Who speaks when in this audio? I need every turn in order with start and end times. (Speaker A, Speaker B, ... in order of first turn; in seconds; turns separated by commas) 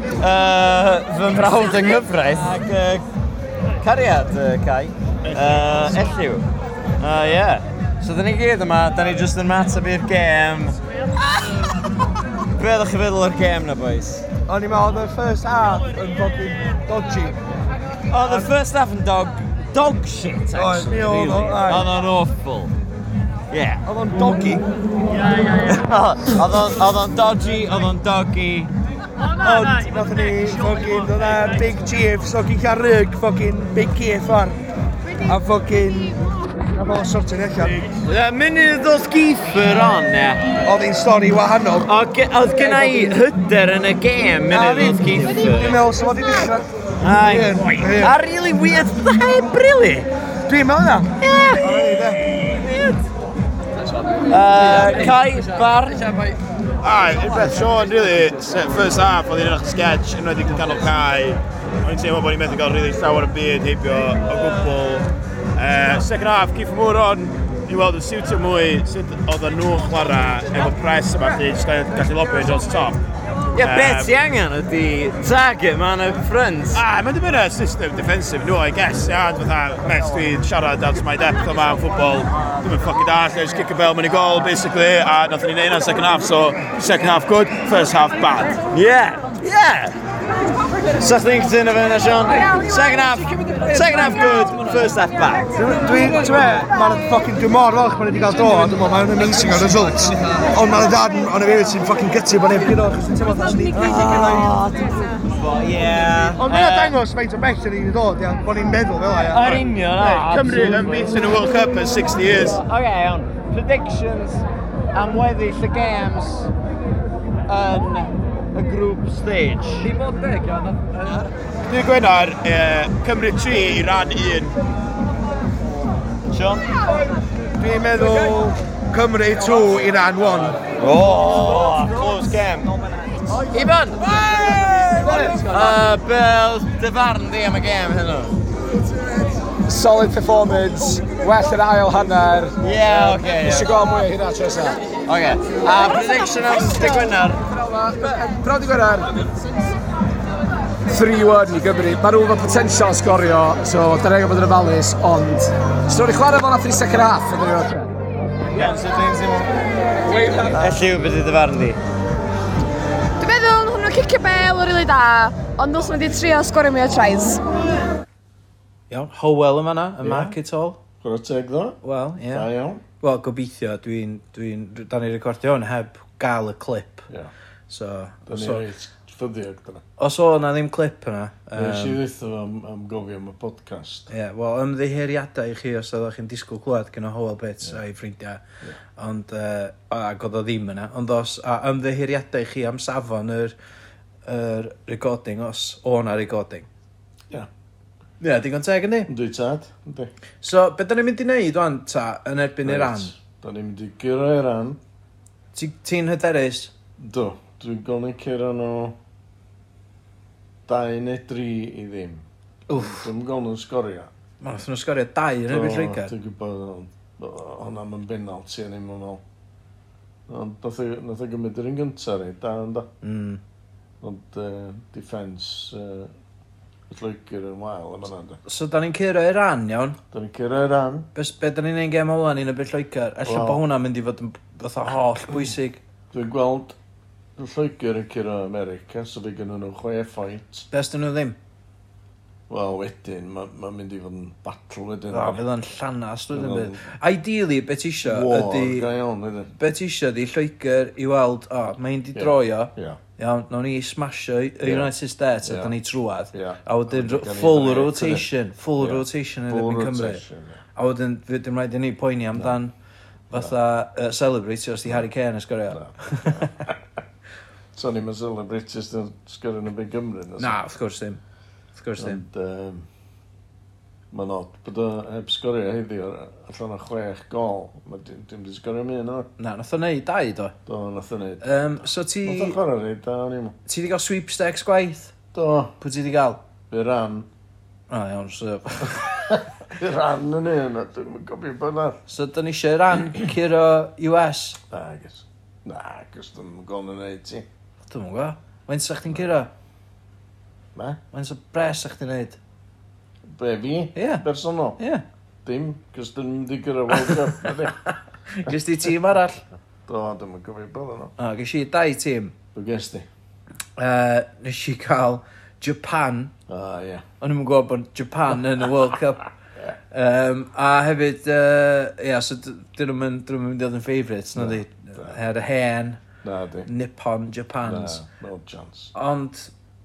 Speaker A: 0.2-3.0, Speaker A: 3.8-6.5, Speaker B: 5.3-6.0, Speaker A: 7.0-10.8, Speaker A: 11.3-11.7, Speaker A: 12.6-14.2, Speaker C: 14.5-17.4, Speaker A: 18.1-22.7, Speaker C: 18.2-18.5, Speaker C: 20.5-21.9, Speaker A: 23.5-23.8, Speaker C: 23.9-24.7, Speaker A: 25.6-28.7, Speaker C: 29.4-34.6, Speaker C: 35.2-37.9, Speaker A: 38.0-40.4, Speaker C: 40.6-41.9, Speaker A: 41.9-45.8, Speaker C: 42.6-43.1, Speaker C: 44.5-48.1, Speaker A: 47.0-50.1, Speaker C: 50.5-52.2, Speaker A: 51.2-53.0, Speaker A: 54.2-56.4, Speaker B: 56.8-73.0, Speaker A: 73.5-76.8, Speaker B: 73.6-74.1, Speaker B: 76.7-88.6, Speaker A: 88.7-90.0, Speaker A: 91.0-95.6, Speaker C: 95.5-104.6, Speaker A: 103.7-107.0, Speaker C: 106.4-109.6, Speaker A: 109.3-111.1, Speaker B: 110.0-112.6, Speaker A: 112.3-116.5, Speaker A: 117.5-121.2, Speaker B: 121.7-124.5, Speaker A: 126.3-126.7, Speaker C: 127.6-130.6, Speaker A: 130.8-132.7, Speaker A: 133.5-138.3, Speaker D: 139.7-142.6, Speaker A: 142.6-143.7, Speaker D: 143.1-144.8, Speaker A: 145.1-147.4, Speaker D: 147.5-149.2, Speaker D: 150.9-157.9, Speaker A: 158.5-159.5, Speaker D: 160.1-160.6, Speaker A: 160.5-161.8, Speaker E: 163.2-167.4, Speaker F: 168.9-170.8, Speaker G: 170.0-170.4, Speaker G: 171.0-172.8, Speaker F: 171.8-172.5, Speaker F: 173.0-177.1, Speaker F: 177.7-178.7, Speaker G: 178.2-179.8, Speaker F: 180.0-182.0, Speaker G: 181.5-184.1, Speaker F: 184.1-188.4, Speaker F: 189.0-193.5, Speaker F: 194.2-196.7, Speaker F: 198.2-199.1, Speaker G: 199.1-200.1, Speaker F: 200.4-203.1, Speaker G: 202.6-204.8, Speaker F: 205.5-206.7, Speaker G: 207.0-209.0, Speaker G: 210.7-214.1, Speaker F: 212.7-213.1, Speaker F: 214.4-216.1, Speaker G: 215.5-219.2, Speaker G: 220.3-222.9, Speaker F: 223.0-223.4, Speaker G: 224.0-226.1, Speaker G: 226.9-228.4, Speaker F: 228.4-230.0, Speaker G: 230.1-231.1, Speaker F: 231.1-235.8, Speaker G: 233.2-233.6, Speaker G: 236.1-236.8, Speaker G: 237.4-240.7, Speaker F: 240.7-241.4, Speaker G: 242.5-245.4, Speaker F: 245.1-248.9, Speaker G: 246.3-246.9, Speaker G: 248.0-249.5, Speaker F: 249.5-260.2, Speaker G: 252.1-253.0, Speaker G: 254.6-254.9, Speaker G: 255.4-255.7, Speaker G: 256.3-260.6, Speaker F: 260.8-262.7, Speaker F: 263.3-266.6, Speaker G: 265.7-266.8, Speaker G: 267.7-270.6, Speaker F: 270.4-271.2, Speaker F: 271.7-272.2, Speaker G: 272.0-272.9, Speaker G: 274.1-279.3, Speaker F: 279.4-280.5, Speaker G: 280.6-283.6, Speaker F: 281.4-282.6, Speaker F: 283.7-285.1, Speaker G: 285.3-285.8, Speaker F: 285.8-286.4, Speaker G: 286.7-287.3, Speaker F: 287.9-289.4, Speaker G: 288.8-292.0, Speaker F: 292.1-294.6, Speaker G: 294.7-297.5, Speaker F: 297.9-299.5, Speaker G: 300.7-301.0, Speaker F: 301.1-302.4, Speaker G: 303.3-304.8, Speaker F: 303.9-304.2, Speaker F: 304.8-305.0, Speaker G: 305.4-307.9, Speaker F: 306.9-309.4, Speaker G: 309.9-311.1, Speaker F: 311.2-312.3, Speaker G: 312.5-313.1, Speaker F: 313.8-316.3, Speaker G: 316.5-317.0, Speaker F: 317.2-319.3, Speaker F: 319.9-326.0, Speaker G: 324.3-325.2, Speaker G: 326.2-326.7, Speaker F: 326.6-328.0, Speaker G: 327.6-328.9, Speaker F: 328.9-329.5